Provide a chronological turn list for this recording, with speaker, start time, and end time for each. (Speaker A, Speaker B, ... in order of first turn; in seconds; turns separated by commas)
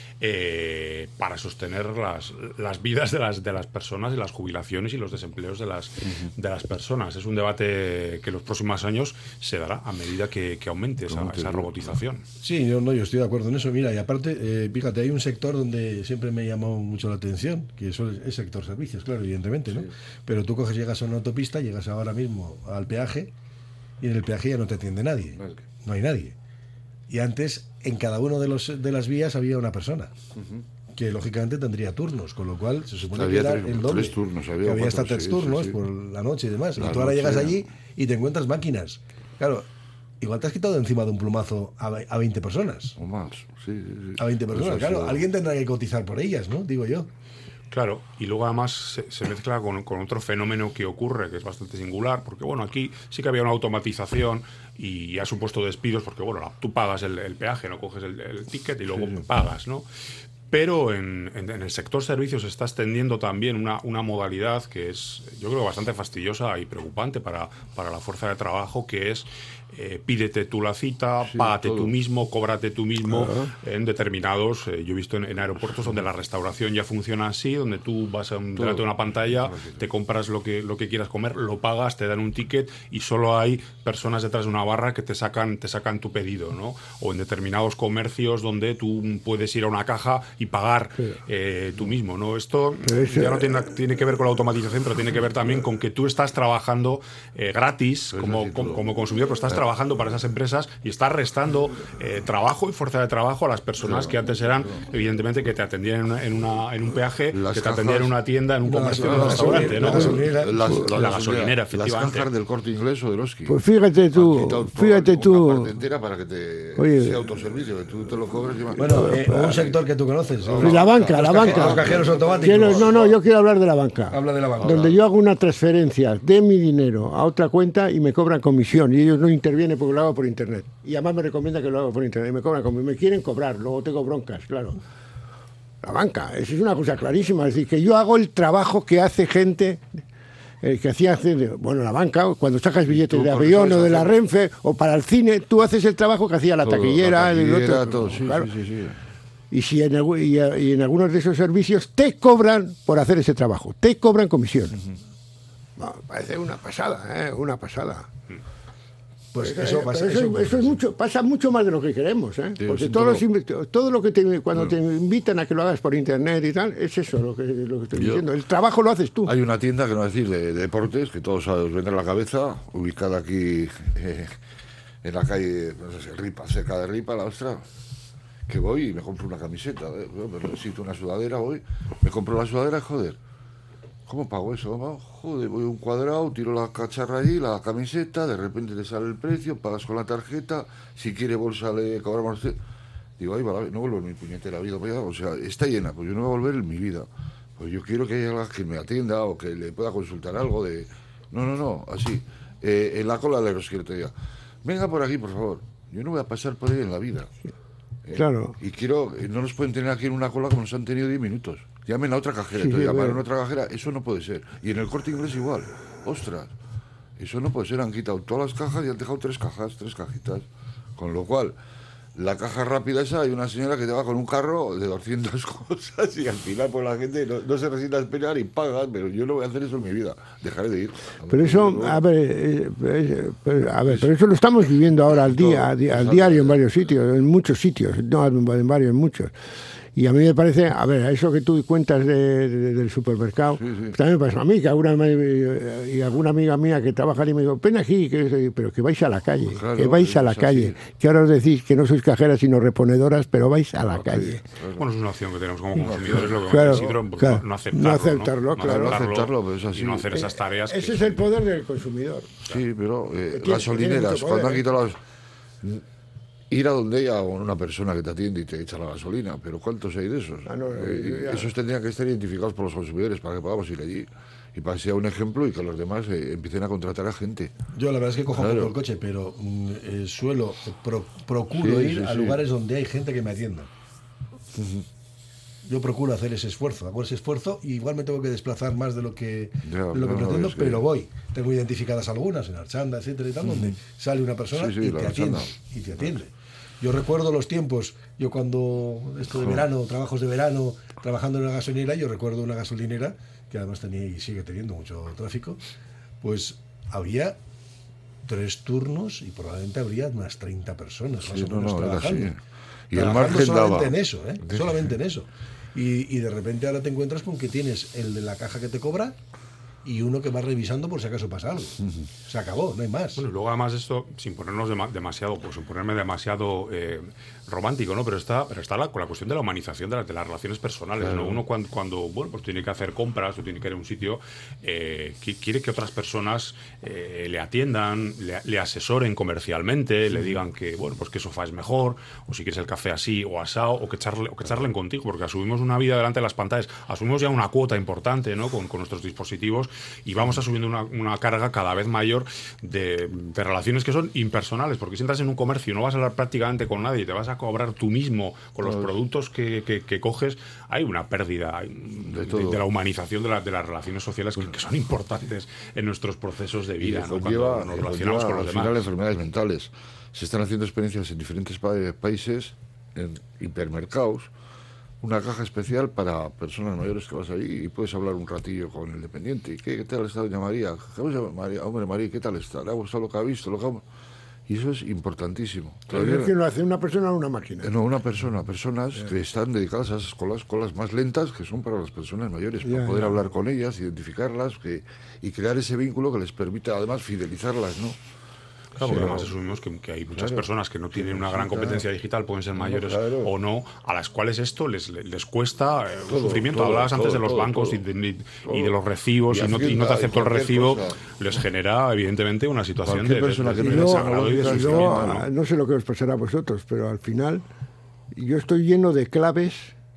Speaker A: 0.2-12.2, Speaker B: 11.0-12.0, Speaker C: 12.4-23.3, Speaker C: 24.0-26.4, Speaker B: 25.4-25.6, Speaker C: 27.1-30.1, Speaker B: 30.3-30.6, Speaker C: 30.9-39.7, Speaker B: 33.1-35.8, Speaker B: 36.8-37.7, Speaker C: 40.2-43.0, Speaker B: 43.0-45.2, Speaker C: 44.2-47.1, Speaker A: 47.7-59.9, Speaker B: 58.9-59.2, Speaker A: 60.5-112.3, Speaker B: 71.2-71.9, Speaker D: 73.1-73.5, Speaker B: 78.5-79.8, Speaker D: 92.8-93.7, Speaker B: 98.1-98.9, Speaker B: 103.8-105.0, Speaker B: 107.3-108.1, Speaker C: 108.7-110.8, Speaker B: 109.0-113.6, Speaker D: 113.5-115.7, Speaker B: 114.1-119.7, Speaker D: 116.8-117.3, Speaker C: 118.8-122.9, Speaker D: 118.9-119.6, Speaker B: 120.4-123.2, Speaker D: 120.6-134.8, Speaker C: 124.1-125.0, Speaker B: 124.6-125.0, Speaker D: 135.8-140.0, Speaker D: 140.6-148.5, Speaker B: 142.9-144.2, Speaker B: 146.6-149.0, Speaker D: 149.5-154.8, Speaker D: 155.8-158.1, Speaker C: 159.3-160.8, Speaker D: 159.3-169.3, Speaker B: 162.6-163.2, Speaker B: 167.9-168.2, Speaker B: 169.2-174.4, Speaker B: 175.0-177.7, Speaker B: 178.5-183.2, Speaker B: 184.1-192.6, Speaker B: 193.2-204.1, Speaker B: 204.6-207.3, Speaker B: 208.0-216.5, Speaker D: 208.1-208.6, Speaker D: 212.6-213.2, Speaker B: 217.2-220.4, Speaker B: 221.0-221.6, Speaker B: 222.1-232.0, Speaker D: 231.3-239.3, Speaker B: 235.1-236.9, Speaker D: 239.9-254.4, Speaker B: 243.5-243.9, Speaker B: 249.4-250.8, Speaker B: 253.9-254.8, Speaker A: 254.8-261.2, Speaker B: 255.7-257.0, Speaker D: 255.8-259.0, Speaker B: 258.6-260.2, Speaker D: 260.1-262.4, Speaker B: 262.5-265.0, Speaker D: 263.3-264.7, Speaker B: 266.5-277.5, Speaker D: 270.5-271.5, Speaker C: 277.7-283.7, Speaker B: 278.3-278.7, Speaker B: 281.5-282.4, Speaker B: 284.5-284.9, Speaker C: 285.6-305.6, Speaker B: 289.6-290.8, Speaker B: 293.4-293.8, Speaker B: 294.5-296.1, Speaker B: 299.3-299.6, Speaker C: 306.2-307.4, Speaker C: 308.2-312.3, Speaker B: 311.2-312.4, Speaker B: 312.9-314.9, Speaker C: 312.9-319.2, Speaker C: 319.8-323.2, Speaker A: 323.2-368.9, Speaker B: 331.0-331.4, Speaker B: 340.1-340.4, Speaker B: 358.6-358.9, Speaker B: 362.0-362.6, Speaker B: 366.8-374.3, Speaker B: 375.0-383.9, Speaker B: 384.5-386.4, Speaker D: 385.9-387.7, Speaker B: 387.6-398.0, Speaker D: 392.6-393.2, Speaker B: 398.8-399.3, Speaker A: 398.8-415.3, Speaker B: 400.1-401.9, Speaker B: 402.6-403.3, Speaker B: 406.1-407.8, Speaker B: 408.4-408.7, Speaker B: 409.3-411.4, Speaker B: 412.8-415.2, Speaker D: 413.6-417.4, Speaker D: 418.1-419.7